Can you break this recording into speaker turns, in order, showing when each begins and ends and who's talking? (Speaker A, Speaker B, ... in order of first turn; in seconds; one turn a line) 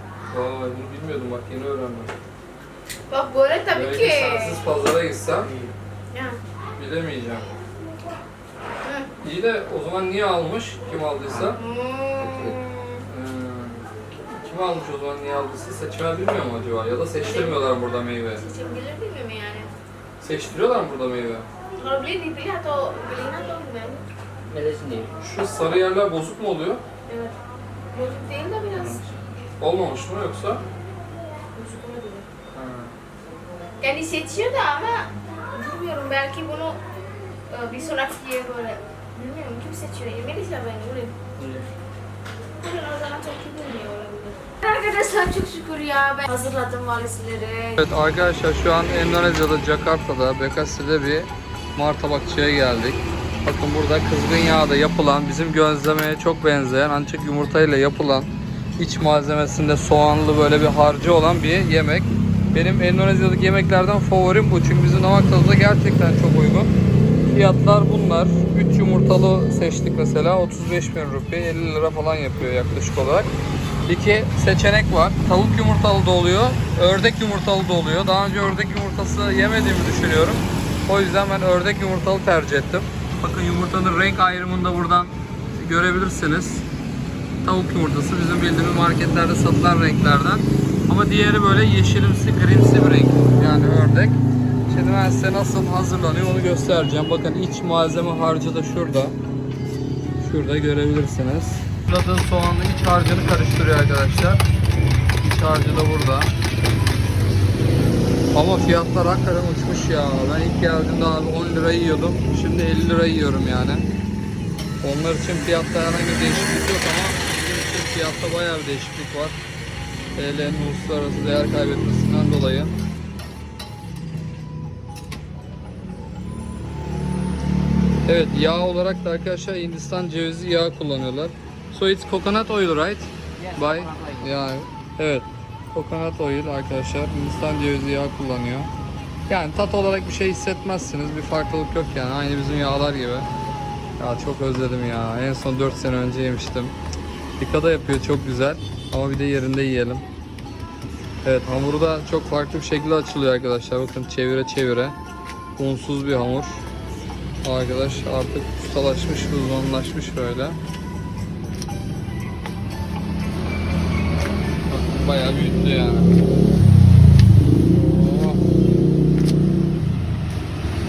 Speaker A: 0.3-2.1
Speaker B: 3.1-4.6
Speaker A: 3.7-5.5
Speaker C: 5.4-5.7
Speaker B: 6.1-6.4
Speaker A: 6.8-7.5
Speaker B: 8.8-9.1
Speaker A: 9.2-11.6
Speaker C: 11.3-11.5
Speaker B: 11.4-13.0
Speaker C: 12.2-12.6
Speaker A: 13.1-18.4
Speaker B: 17.2-17.6
Speaker B: 18.4-19.7
Speaker A: 20.2-21.5
Speaker B: 21.8-24.0
Speaker C: 24.5-25.1
Speaker A: 25.2-26.8
Speaker B: 27.1-27.4
Speaker B: 27.9-29.2
Speaker C: 28.8-29.1
Speaker A: 29.6-30.6
Speaker B: 31.5-32.3
Speaker A: 32.5-33.0
Speaker B: 33.8-36.8
Speaker B: 37.5-41.1
Speaker C: 41.4-41.7
Speaker B: 42.6-47.8
Speaker A: 47.8-66.7
Speaker A: 67.2-73.3
Speaker A: 73.9-86.6
Speaker A: 87.4-99.2
Speaker A: 100.2-104.4
Speaker A: 105.2-106.3
Speaker A: 108.3-113.9
Speaker A: 114.8-119.3
Speaker A: 120.2-122.7
Speaker A: 128.1-138.7
Speaker C: 133.4-134.3
Speaker A: 139.3-143.3
Speaker A: 144.0-146.7
Speaker A: 147.4-150.0
Speaker A: 151.2-154.9
Speaker A: 155.6-156.6
Speaker A: 157.4-160.6
Speaker A: 164.7-166.2
Speaker A: 167.7-168.4